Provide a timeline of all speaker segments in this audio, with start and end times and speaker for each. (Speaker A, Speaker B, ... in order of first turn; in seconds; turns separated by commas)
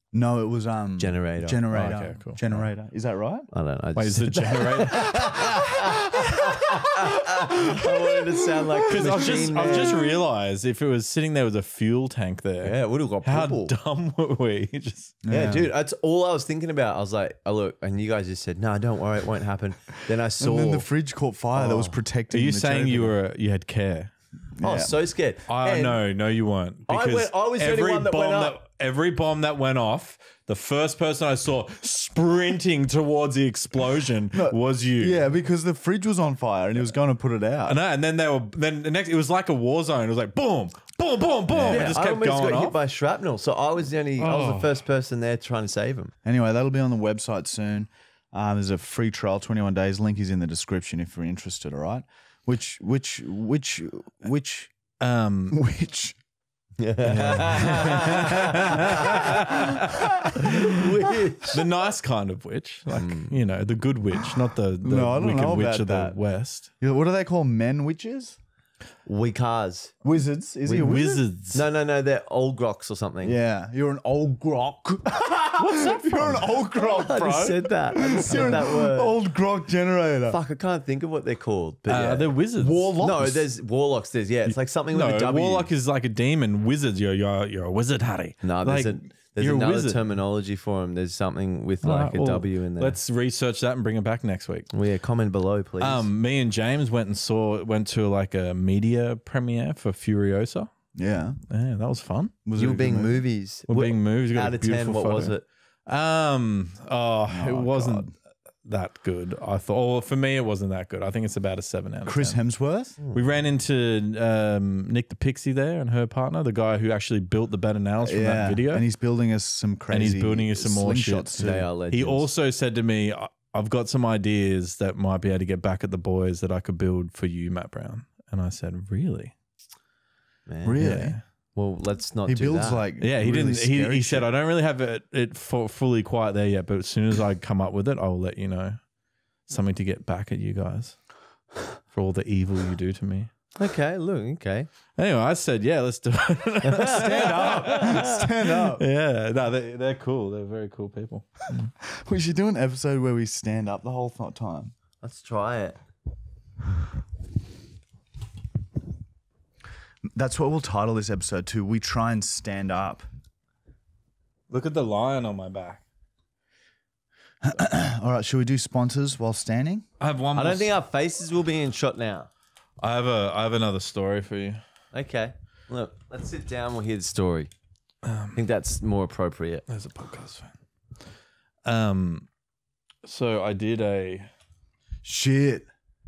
Speaker A: 0.1-3.5, Speaker B: 1.0-1.7, Speaker C: 1.7-2.7, Speaker B: 3.5-10.1, Speaker C: 4.0-5.2, Speaker A: 6.2-9.9, Speaker C: 8.9-15.2, Speaker B: 12.6-13.7, Speaker A: 15.2-15.7, Speaker B: 15.3-20.9, Speaker A: 20.4-23.2, Speaker B: 21.6-22.0, Speaker C: 22.3-24.1, Speaker A: 24.6-24.9, Speaker B: 24.6-26.0, Speaker C: 25.5-35.2, Speaker B: 26.9-28.6, Speaker A: 34.3-37.8, Speaker C: 37.7-42.8, Speaker A: 41.5-42.0, Speaker B: 41.6-46.1, Speaker C: 44.2-44.7, Speaker A: 46.2-54.7, Speaker C: 55.0-55.6, Speaker A: 55.5-56.2, Speaker B: 56.8-61.6, Speaker C: 57.0-59.8, Speaker C: 61.5-66.7, Speaker B: 62.9-63.4, Speaker A: 64.8-66.2, Speaker A: 66.8-68.4, Speaker B: 69.0-70.0, Speaker A: 70.0-71.2, Speaker C: 70.7-71.7, Speaker B: 71.5-73.4, Speaker A: 73.2-80.4, Speaker B: 75.6-79.2, Speaker B: 80.3-82.3, Speaker C: 81.9-82.9, Speaker A: 82.6-83.5, Speaker B: 83.0-85.7, Speaker C: 84.5-90.0, Speaker B: 88.4-93.0, Speaker C: 91.8-94.7, Speaker B: 94.7-96.1, Speaker C: 95.8-100.7, Speaker A: 101.0-101.4, Speaker C: 101.5-102.4, Speaker A: 102.5-103.2, Speaker B: 102.6-105.5, Speaker C: 103.7-108.1, Speaker A: 107.3-108.1, Speaker C: 108.7-112.4, Speaker A: 112.1-113.0, Speaker B: 113.0-113.3, Speaker C: 113.1-118.8, Speaker A: 118.0-121.7, Speaker C: 119.9-129.3, Speaker B: 121.4-122.3, Speaker B: 130.5-130.8, Speaker A: 130.6-131.2, Speaker C: 130.8-131.2, Speaker B: 131.5-132.8, Speaker A: 132.3-134.3, Speaker C: 133.0-138.8, Speaker C: 139.5-141.0, Speaker C: 141.9-143.3, Speaker B: 143.6-144.7, Speaker C: 145.0-151.7, Speaker B: 146.7-148.2, Speaker A: 146.9-148.8, Speaker A: 151.8-154.7, Speaker B: 155.0-155.8, Speaker A: 160.1-163.1, Speaker C: 164.5-165.8, Speaker A: 167.4-169.9, Speaker C: 170.0-170.8, Speaker B: 170.4-172.3, Speaker C: 172.8-174.6, Speaker B: 174.9-177.5, Speaker C: 178.0-178.4, Speaker B: 178.3-179.7, Speaker C: 179.7-180.5, Speaker C: 181.7-182.3, Speaker C: 183.0-184.3, Speaker A: 185.0-185.7